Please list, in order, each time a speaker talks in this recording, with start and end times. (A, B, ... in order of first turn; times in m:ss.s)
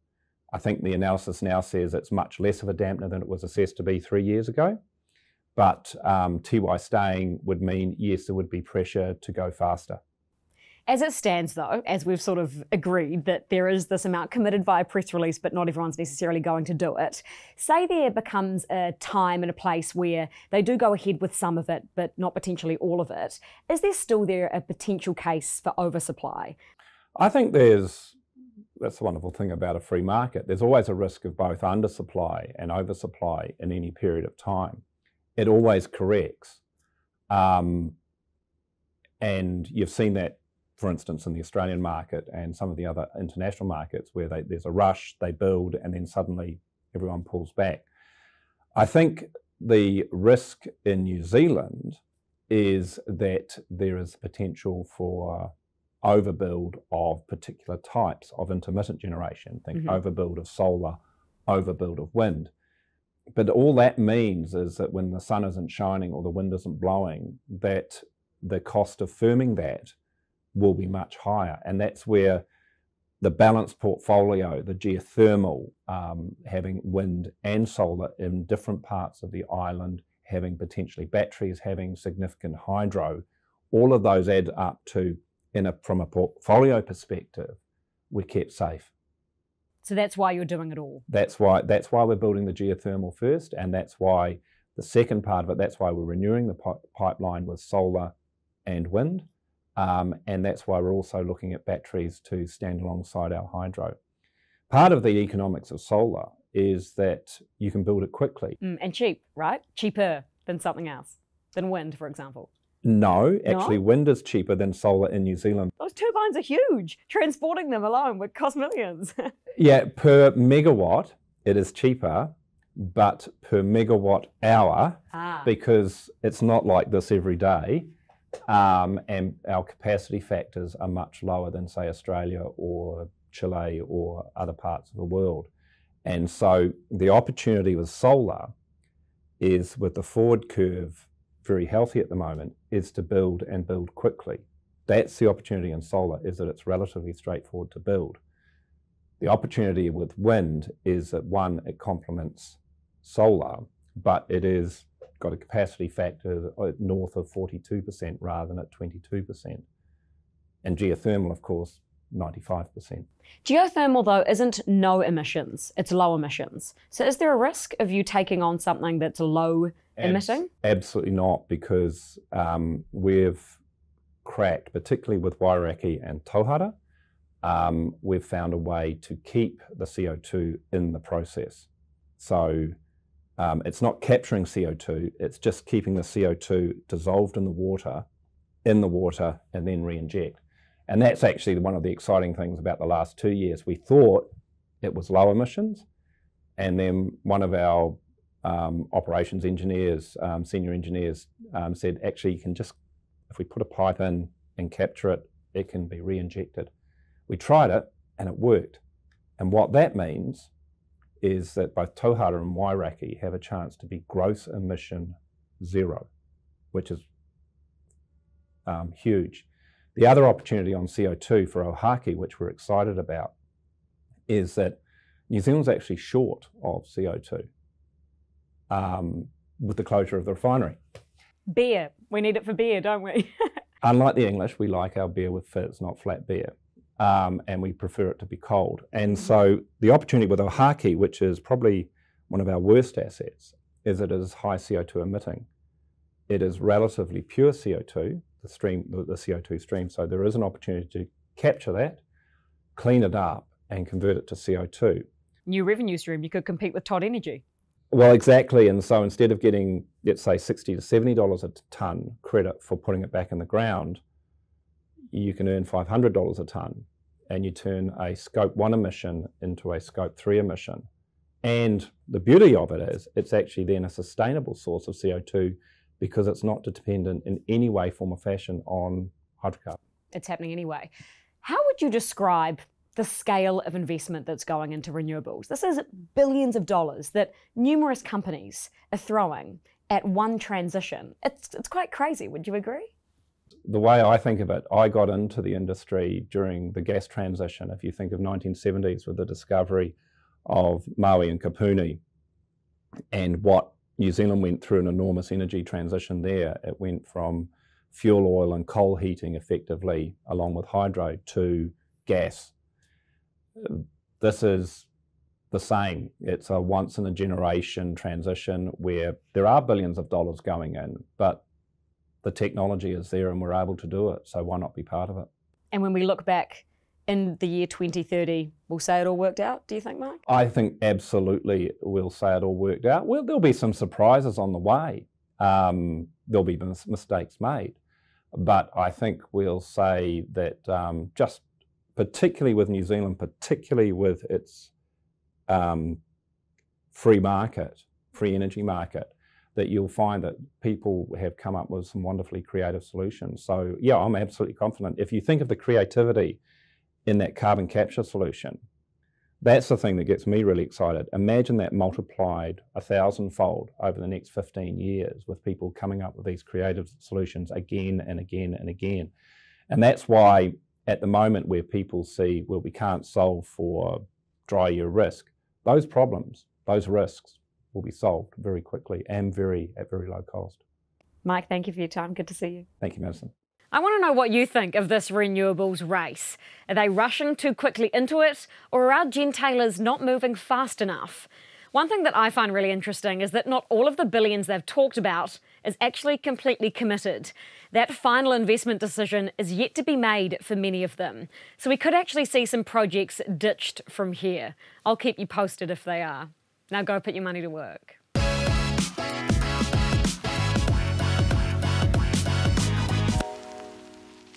0:00.5-0:04.8 A
0:05.6-0:10.0 A
0:10.9-0:26.6 B
0:27.2-0:28.2 A
0:28.8-0:34.8 A
0:35.4-0:36.6 A
0:37.3-0:38.0 A
0:39.2-0:47.8 A
0:48.7-0:55.5 A
0:56.0-1:02.5 A
1:03.3-1:09.9 A
1:10.5-1:12.4 A
1:13.2-1:27.6 A
1:28.1-1:28.9 A
1:29.8-1:31.0 B
1:31.1-1:38.1 A
1:38.6-1:44.0 A
1:44.7-1:48.6 A
1:48.6-1:52.5 B
1:52.8-1:55.7 A
1:53.4-1:53.8 B
1:55.8-1:59.3 B
1:59.6-2:07.9 A
2:05.1-2:05.5 B
2:08.5-2:15.5 A
2:16.0-2:18.5 A
2:19.4-2:28.2 A
2:29.2-2:39.6 A
2:40.6-2:43.0 A
2:43.4-2:50.5 B
2:50.0-2:53.6 A
2:54.2-2:56.7 A
2:57.4-3:02.7 A
3:03.4-3:08.0 A
3:08.6-3:14.2 A
3:14.8-3:15.8 A
3:16.6-3:22.8 A
3:23.3-3:26.7 A
3:27.3-3:28.8 A
3:29.4-3:30.5 A
3:31.2-3:36.1 A
3:36.7-3:37.0 A
3:38.6-3:43.3 A
3:44.3-3:47.4 A
3:48.7-3:50.8 A
3:51.5-3:53.3 B
3:53.8-4:05.4 A
4:06.3-4:12.0 A
4:12.8-4:15.0 A
4:15.4-4:17.4 B
4:17.9-4:24.0 A
4:25.1-4:30.8 A
4:31.4-4:39.8 A
4:40.1-4:40.9 B
4:41.4-4:52.9 B
4:53.7-5:02.0 A
5:03.1-5:12.5 A
5:13.6-5:14.9 A
5:15.5-5:21.4 A
5:22.2-5:25.3 A
5:25.7-5:30.2 B
5:30.3-5:37.8 A
5:38.3-5:44.7 A
5:45.5-5:46.0 A
5:46.9-5:56.4 A
5:57.0-5:58.6 A
5:59.4-6:09.1 A
6:09.7-6:20.6 A
6:21.2-6:22.7 B
6:22.8-6:23.3 A
6:23.7-6:48.0 B